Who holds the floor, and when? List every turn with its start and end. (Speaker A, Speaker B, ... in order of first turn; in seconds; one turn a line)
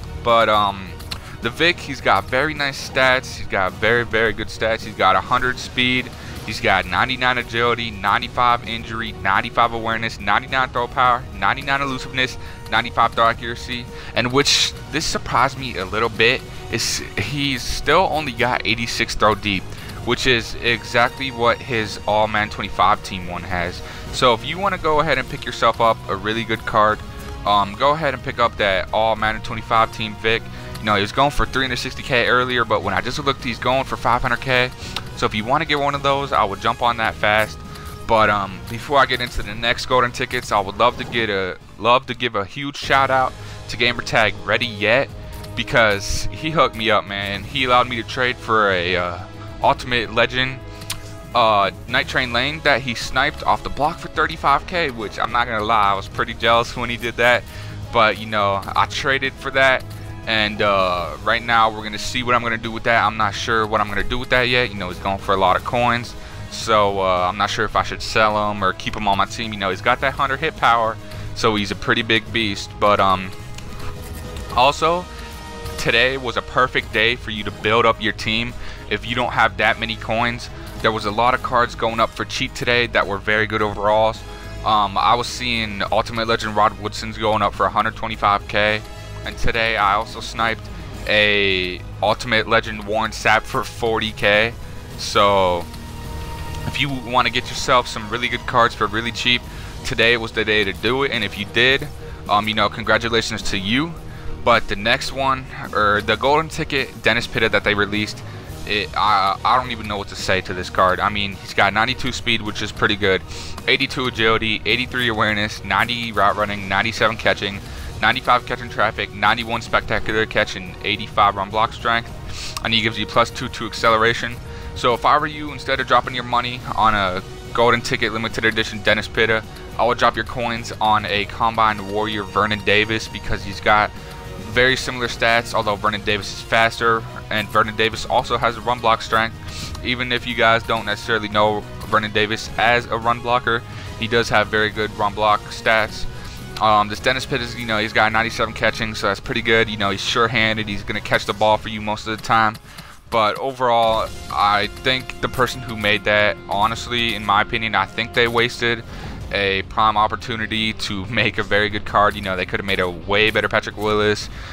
Speaker A: 0.2-50.6
Speaker A: 51.3-73.3
Speaker A: 74.5-75.1
Speaker A: 75.8-95.7
Speaker A: 96.7-152.6
Speaker A: 153.1-164.3